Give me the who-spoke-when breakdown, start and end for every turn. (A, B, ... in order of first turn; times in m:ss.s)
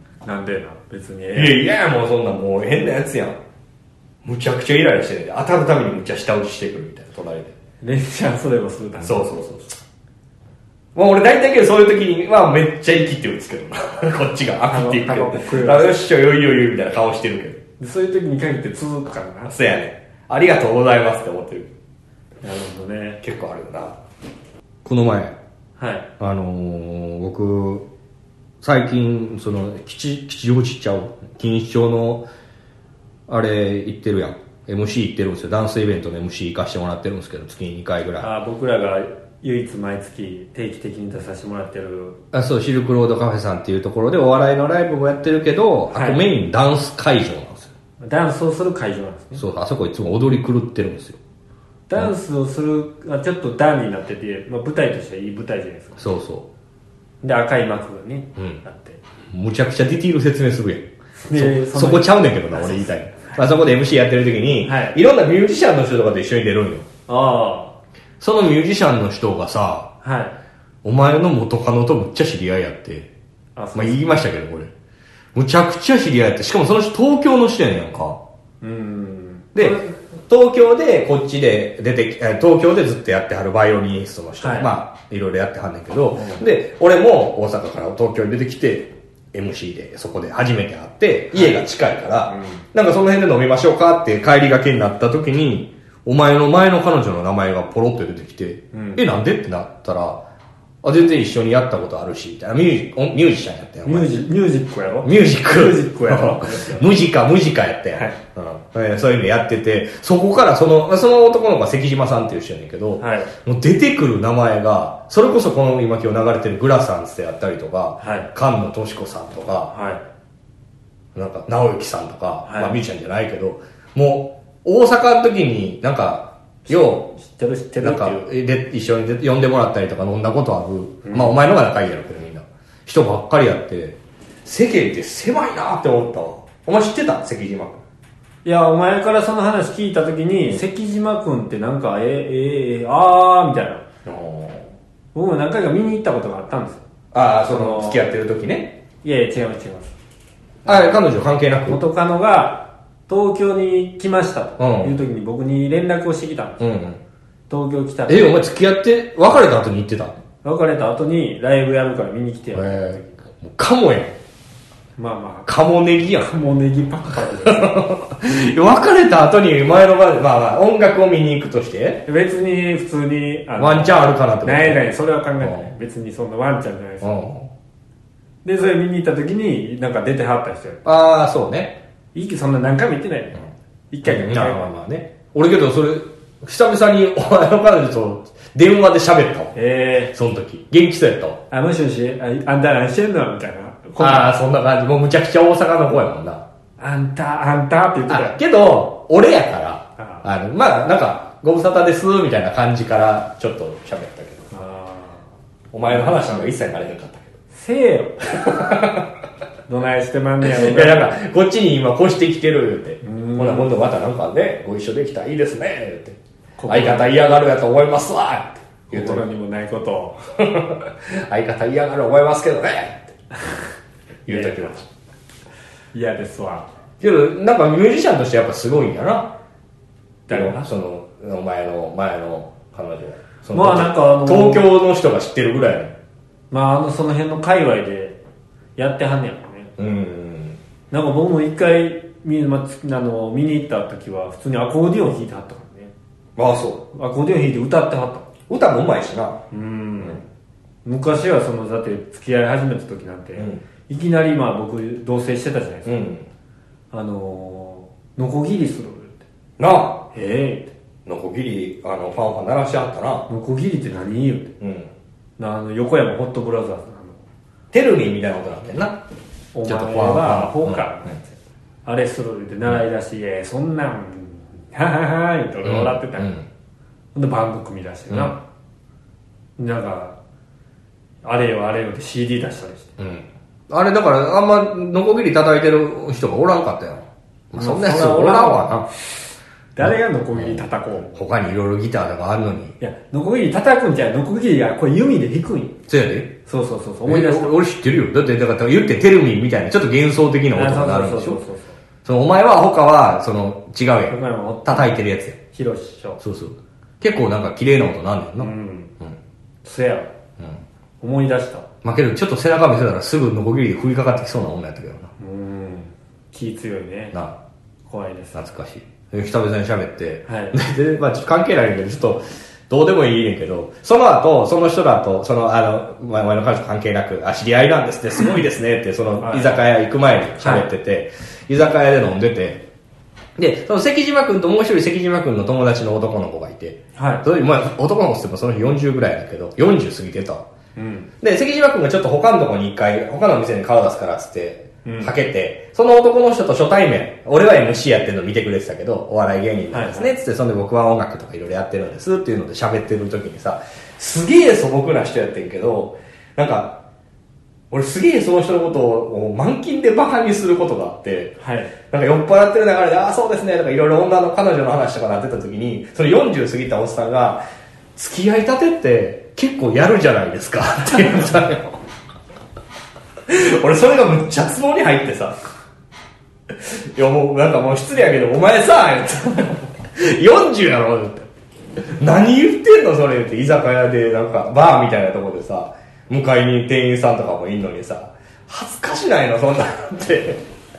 0:00.2-0:01.6 A
0:01.3-0:03.4 B
0:04.2-0:07.5 B
0:07.8-0:09.3 A
0:09.0-0:09.8 B
0:10.9-0:17.6 B
0:14.7-0:16.0 A
0:17.8-0:19.5 A
0:19.5-0:21.7 B
0:22.4-0:23.2 A
0:23.2-0:24.0 B
0:24.8-0:25.4 B
0:25.8-0:26.1 A
0:26.2-0:27.9 B
0:28.6-0:32.3 B
0:33.3-0:38.3 B
0:38.2-0:42.2 A
0:42.3-0:47.7 B
0:45.9-0:46.2 A
0:48.0-0:49.4 A
0:49.4-0:51.2 B
0:51.9-0:56.0 A
0:56.0-0:56.5 B
0:57.2-0:59.0 A
0:58.4-0:58.6 B
0:59.3-1:06.8 B
1:01.2-1:03.4 A
1:04.6-1:05.0 A
1:07.1-1:07.7 A
1:08.2-1:09.9 B
1:10.0-1:10.4 A
1:10.8-1:13.1 B
1:13.6-1:14.0 A
1:13.7-1:14.7 B
1:15.3-1:18.2 B
1:18.6-1:19.8 A
1:19.5-1:40.2 B
1:24.4-1:24.7 A
1:26.1-1:26.4 A
1:31.3-1:31.6 A
1:32.3-1:32.6 A
1:38.7-1:39.0 A
1:40.8-1:44.1 B
1:43.8-1:46.9 A
1:45.0-1:59.7 B
1:53.0-1:53.3 A
1:58.0-1:58.3 A
1:59.7-2:00.0 A
2:01.1-2:07.1 B
2:02.4-2:02.7 A
2:06.7-2:08.2 A
2:07.8-2:17.8 B
2:11.0-2:11.4 A
2:18.4-2:23.8 A
2:24.0-2:24.7 B
2:25.1-2:26.8 A
2:27.1-2:28.8 B
2:27.5-2:28.0 A
2:29.0-2:29.9 A
2:30.6-2:31.0 A
2:30.6-2:31.8 B
2:31.6-2:36.6 A
2:34.6-2:35.0 B
2:36.6-2:37.0 B
2:37.5-2:38.4 A
2:38.1-2:40.1 B
2:40.4-2:43.1 A
2:42.5-2:44.2 B
2:45.0-2:45.5 A
2:45.5-2:46.3 B
2:46.2-2:47.8 A
2:47.2-2:52.0 B
2:52.0-2:57.1 A
2:53.6-2:54.8 B
2:55.4-2:55.7 B
2:57.0-2:57.5 B
2:58.4-3:00.8 A
3:00.8-3:01.8 B
3:02.1-3:04.7 A
3:04.0-3:09.5 B
3:09.5-3:10.1 A
3:10.1-3:11.4 B
3:11.5-3:14.3 A
3:14.0-3:16.4 B
3:16.8-3:18.4 A
3:18.1-3:24.5 B
3:20.0-3:20.2 A
3:24.5-3:25.2 A
3:25.7-3:27.3 B
3:25.9-3:26.4 A
3:27.5-3:28.3 A
3:28.3-3:29.1 B
3:29.7-3:31.1 A
3:30.4-3:39.2 B
3:33.0-3:33.7 A
3:36.6-3:37.1 A
3:38.9-3:40.2 A
3:40.4-3:43.1 B
3:44.2-3:44.9 B
3:44.3-3:44.7 A
3:45.9-3:46.7 A
3:47.0-3:49.3 B
3:50.3-3:50.7 A
3:50.3-3:55.9 B
3:53.5-3:54.7 A
3:56.5-3:58.2 A
3:58.8-3:59.7 A
3:59.8-4:00.6 B
4:00.9-4:05.9 A
4:06.4-4:06.8 B
4:06.9-4:08.3 A
4:08.5-4:09.4 B
4:09.5-4:10.2 A
4:10.8-4:16.0 A
4:13.4-4:13.6 B
4:15.8-4:16.2 B
4:16.9-4:19.2 A
4:19.6-4:20.0 B
4:20.1-4:20.7 A
4:21.0-4:23.3 B
4:23.3-4:24.5 A
4:24.6-4:24.9 B
4:25.4-4:27.2 A
4:27.7-4:29.0 B
4:29.5-4:36.3 A
4:29.6-4:31.1 B
4:35.6-4:36.4 B
4:37.1-4:38.4 A
4:38.1-4:38.3 B
4:39.6-4:40.2 A
4:41.2-4:42.9 A
4:43.0-4:48.9 B
4:47.6-4:48.8 A
4:49.7-4:51.2 A
4:49.8-4:52.8 B
4:52.8-4:55.8 A
4:55.9-4:56.3 B
4:56.4-4:57.6 A
4:57.0-5:01.4 B
5:00.5-5:01.8 A
5:02.0-5:05.4 B
5:04.1-5:04.9 A
5:05.5-5:06.2 A
5:06.2-5:09.2 B
5:08.4-5:08.9 A
5:09.6-5:10.1 A
5:11.0-5:11.7 A
5:11.8-5:15.1 B
5:15.2-5:17.2 A
5:17.9-5:18.4 A
5:18.3-5:32.6 B
5:20.3-5:20.6 A
5:29.2-5:29.6 A
5:30.4-5:30.6 A
5:33.4-5:40.4 B
5:37.0-5:37.2 A
5:40.8-5:41.1 A
5:41.2-5:56.8 B
5:44.8-5:45.1 A
5:49.7-5:50.1 A
5:57.7-6:01.4 B
6:01.4-6:01.7 A
6:01.9-6:07.4 B
6:08.0-6:11.8 B
6:13.3-6:15.4 B
6:16.5-6:21.3 B
6:21.9-6:30.4 B